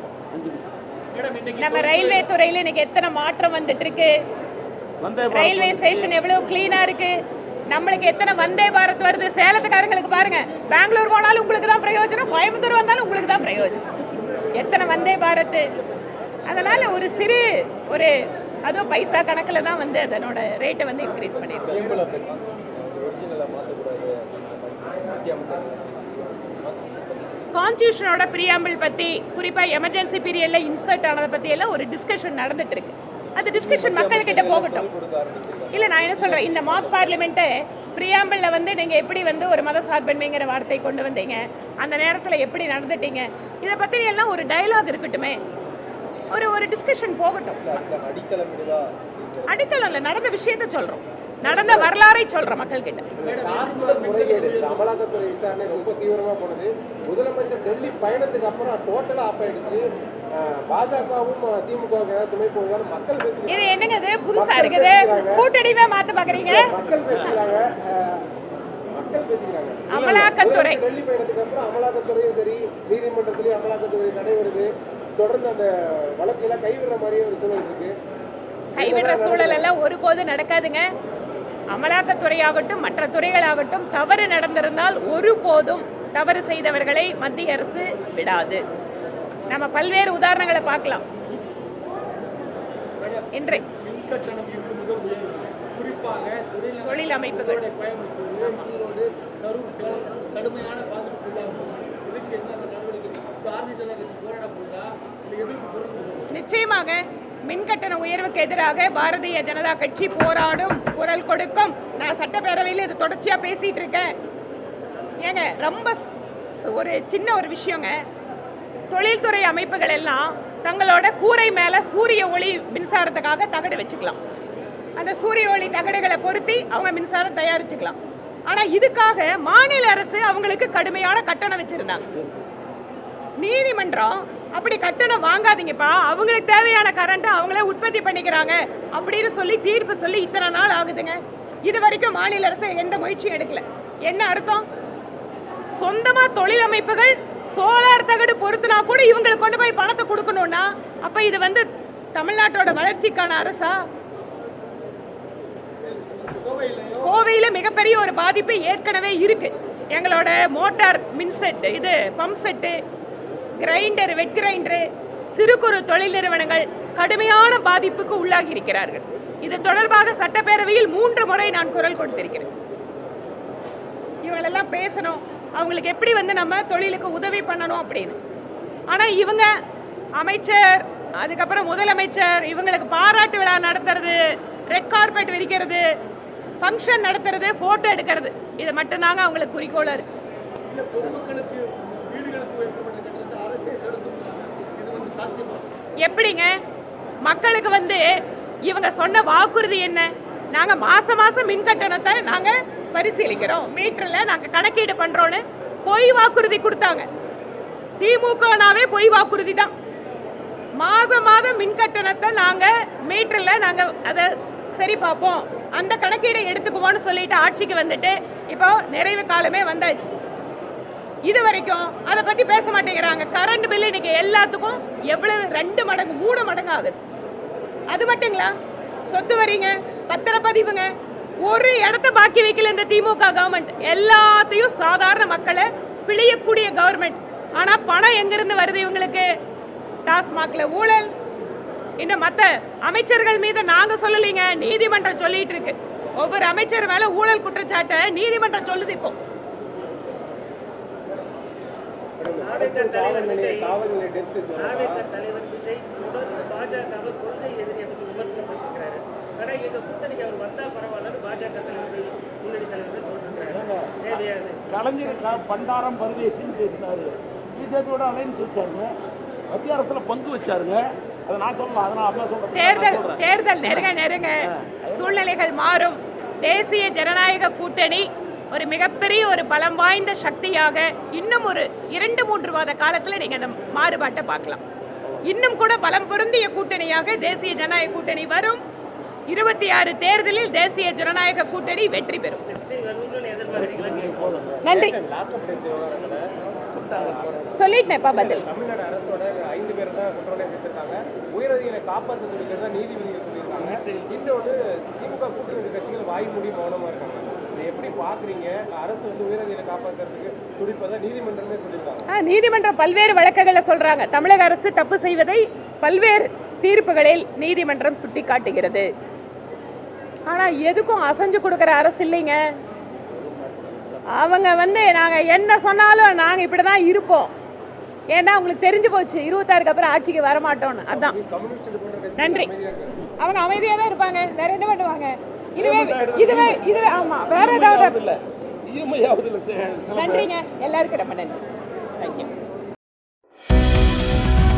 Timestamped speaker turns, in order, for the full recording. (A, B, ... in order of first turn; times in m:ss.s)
0:00.3-0:00.8 A
0:01.1-0:02.2 B
0:01.6-0:04.1 C
0:05.0-0:06.2 A
0:05.3-0:07.2 C
0:07.7-0:13.8 C
0:14.5-0:15.7 C
0:16.4-0:18.1 C
0:18.7-0:21.9 C
0:21.6-0:27.5 D
0:27.5-0:34.9 C
0:33.5-0:37.3 D
0:35.7-0:45.4 C
0:46.3-0:47.8 C
0:47.6-0:49.6 D
0:49.5-0:53.1 C
0:51.4-0:51.9 D
0:53.2-0:54.9 B
0:53.2-0:59.8 D
1:00.4-1:03.7 D
1:03.5-1:06.7 C
1:04.3-1:05.4 D
1:06.3-1:08.2 D
1:08.9-1:17.9 D
1:09.9-1:10.8 C
1:09.9-1:10.3 A
1:18.8-1:20.8 C
1:18.8-1:19.7 D
1:21.7-1:28.6 C
1:29.5-1:31.0 C
1:33.0-1:46.3 B
1:33.3-1:33.6 C
1:36.8-1:37.6 C
1:46.3-1:54.1 C
1:55.2-1:56.0 C
1:56.6-1:57.9 C
1:58.9-2:04.2 C
2:05.0-2:08.0 C
2:08.5-2:12.1 C
2:13.4-2:24.6 C
2:25.7-2:33.8 C
2:35.8-2:37.2 B
2:37.0-2:42.8 C
2:43.6-2:52.5 C
2:54.3-2:58.2 C
2:58.9-2:59.5 C
3:00.2-3:05.8 C
3:06.6-3:10.1 C
3:10.7-3:15.7 B
3:16.0-3:16.5 C
3:17.2-3:18.1 C
3:18.7-3:27.1 C
3:28.0-3:29.7 C
3:30.8-3:40.1 C
3:41.3-3:47.0 C
3:47.9-3:48.5 C
3:49.1-3:50.9 C
3:51.4-3:59.3 C
4:00.1-4:01.1 C
4:02.0-4:09.2 C
4:12.2-4:15.0 D
4:12.4-4:13.8 B
4:14.6-4:25.2 B
4:23.5-4:28.9 A
4:29.5-4:33.9 A
4:32.5-4:44.6 C
4:34.5-4:35.1 A
4:45.2-4:48.6 C
4:49.3-4:52.4 C
4:52.5-4:54.3 B
4:53.5-4:54.5 A
4:53.8-4:56.3 D
4:54.6-4:55.0 C
4:56.7-4:57.5 A
4:56.9-4:57.4 D
4:57.5-4:58.4 C
4:58.1-5:12.1 D
5:03.5-5:04.1 A
5:12.1-5:18.9 C
5:20.3-5:22.4 C
5:23.2-5:24.0 A
5:24.1-5:27.3 C
5:28.1-5:31.2 C
5:30.9-5:33.0 D
5:32.2-5:32.5 C
5:33.2-5:38.0 C
5:35.6-5:40.3 A
5:39.9-5:41.4 C
5:42.0-5:42.3 C